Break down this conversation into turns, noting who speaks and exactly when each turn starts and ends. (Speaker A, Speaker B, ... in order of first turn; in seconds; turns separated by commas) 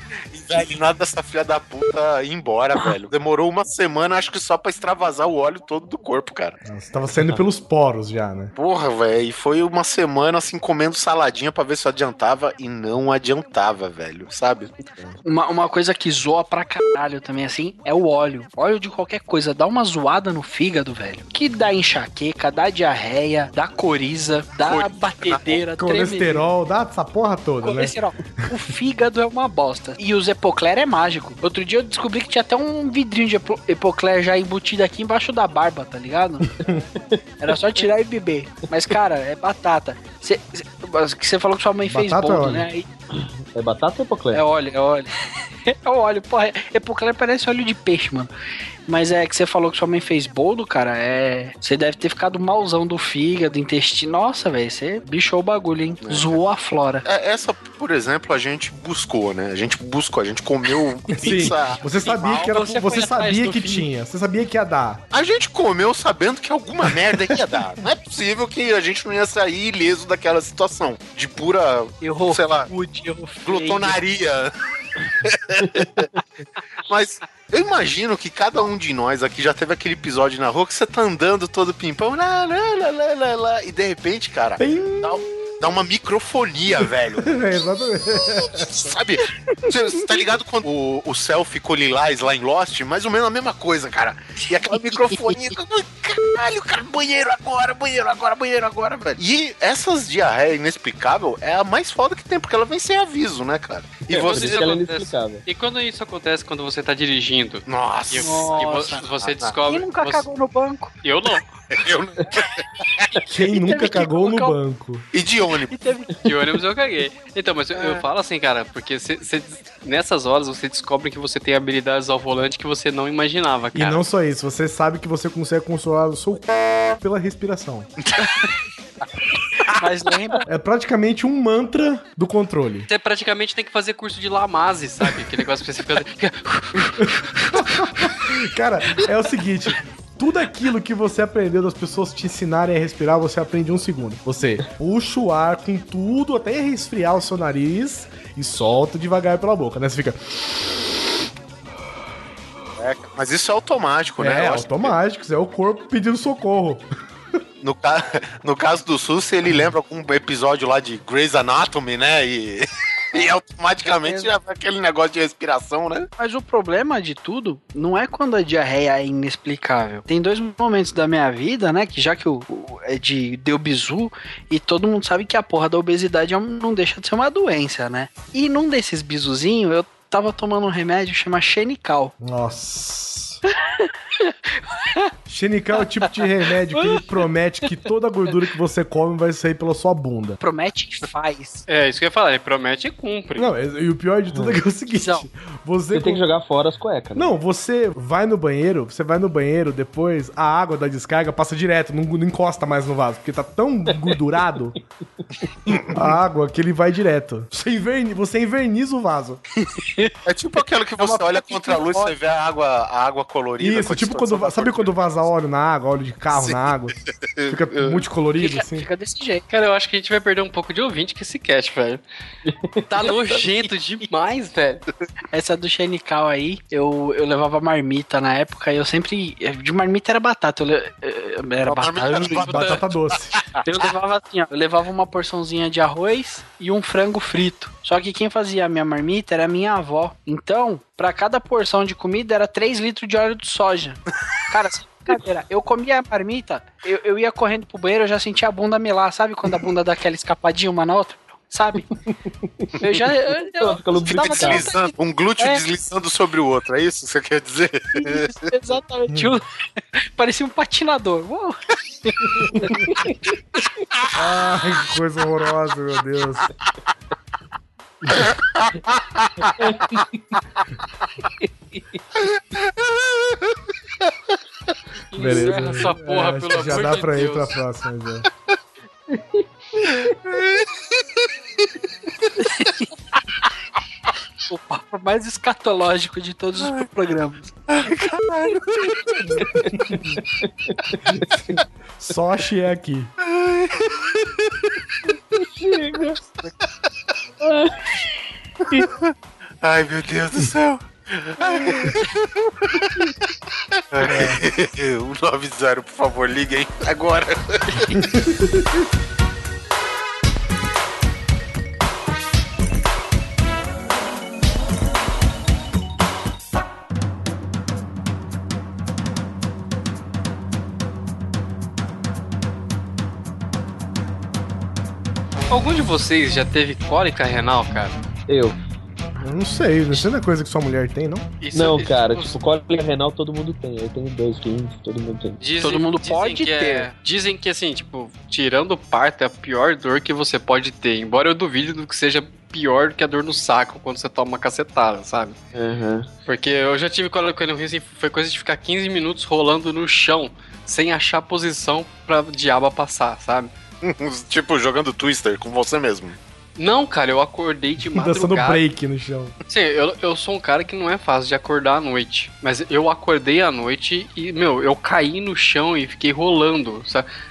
Speaker A: 0.3-6.6, Speaker B: 6.7-8.5, Speaker A: 8.5-14.7, Speaker C: 15.2-26.4, Speaker A: 24.6-25.6, Speaker B: 25.8-27.9, Speaker C: 27.6-36.5, Speaker B: 36.5-36.8, Speaker C: 37.4-42.9, Speaker B: 41.9-42.7, Speaker D: 43.1-44.4, Speaker C: 44.3-45.1, Speaker C: 45.7-48.3, Speaker C: 48.9-57.0, Speaker A: 56.0-56.4, Speaker A: 57.0-61.8, Speaker B: 61.1-65.0, Speaker C: 62.0-63.9, Speaker A: 65.1-72.7, Speaker C: 72.0-74.0, Speaker A: 73.4-74.5, Speaker A: 75.2-76.1, Speaker D: 75.6-76.2, Speaker A: 76.9-87.4, Speaker B: 84.6-85.5, Speaker B: 87.2-88.7, Speaker A: 88.2-104.7, Speaker D: 104.1-105.4, Speaker E: 104.1-110.2, Speaker A: 107.7-109.5, Speaker C: 108.2-109.0, Speaker C: 109.7-110.9, Speaker E: 111.0-111.5, Speaker A: 111.7-113.1, Speaker B: 113.2-115.0, Speaker C: 113.5-114.6, Speaker A: 115.1-115.7, Speaker C: 115.7-116.1, Speaker E: 116.2-124.0, Speaker C: 117.7-118.0, Speaker B: 123.7-126.5, Speaker B: 127.0-127.9, Speaker A: 128.0-128.3, Speaker C: 129.7-130.4, Speaker B: 130.4-132.9, Speaker E: 132.9-137.0, Speaker B: 137.0-150.9, Speaker A: 152.8-154.9, Speaker B: 154.2-156.8, Speaker A: 157.6-166.1, Speaker C: 163.8-164.3, Speaker C: 166.2-182.1, Speaker B: 182.2-183.4, Speaker C: 183.6-185.1, Speaker B: 185.3-190.4, Speaker C: 186.2-187.2, Speaker C: 190.4-191.6, Speaker E: 191.7-193.5, Speaker B: 193.4-196.3, Speaker D: 194.3-194.6, Speaker C: 194.9-195.2, Speaker D: 195.9-197.3, Speaker B: 197.1-204.8, Speaker D: 205.4-205.9, Speaker A: 205.7-205.9, Speaker B: 205.9-209.4, Speaker C: 209.8-210.1, Speaker A: 210.2-214.9, Speaker C: 211.0-212.1, Speaker B: 213.6-218.8, Speaker A: 216.3-218.0, Speaker C: 218.4-219.4, Speaker E: 219.5-222.0, Speaker D: 222.4-222.8, Speaker E: 222.9-224.8, Speaker C: 225.3-232.5, Speaker A: 231.6-233.8, Speaker E: 232.3-232.8, Speaker B: 232.5-233.4, Speaker C: 233.6-251.9, Speaker D: 252.1-252.8, Speaker C: 252.8-255.6, Speaker D: 253.6-254.7, Speaker A: 254.0-258.4, Speaker C: 258.0-259.4, Speaker B: 259.1-259.4, Speaker C: 260.0-262.9, Speaker B: 262.3-262.6, Speaker B: 264.1-266.5, Speaker A: 268.1-269.8, Speaker D: 269.6-270.2, Speaker A: 272.1-274.1, Speaker E: 275.1-277.6, Speaker B: 275.1-278.3, Speaker D: 275.2-275.9, Speaker D: 279.1-280.1, Speaker A: 279.8-281.7, Speaker A: 282.2-282.9, Speaker C: 282.4-282.7, Speaker C: 284.5-287.5, Speaker A: 287.7-289.4, Speaker B: 289.5-290.0, Speaker D: 289.5-291.5, Speaker B: 291.9-293.1, Speaker A: 293.2-294.5, Speaker D: 295.1-296.2, Speaker D: 297.4-298.0, Speaker A: 298.7-308.2, Speaker B: 304.1-304.4, Speaker B: 307.9-308.7, Speaker E: 325.5-328.0, Speaker D: 328.3-328.6, Speaker B: 329.2-331.2, Speaker E: 331.4-332.4, Speaker D: 331.5-335.4, Speaker E: 335.4-345.4, Speaker C: 335.6-336.9, Speaker D: 345.5-346.1, Speaker E: 346.2-353.5, Speaker A: 353.8-356.1, Speaker E: 356.6-358.6, Speaker B: 357.9-359.3, Speaker E: 359.5-367.1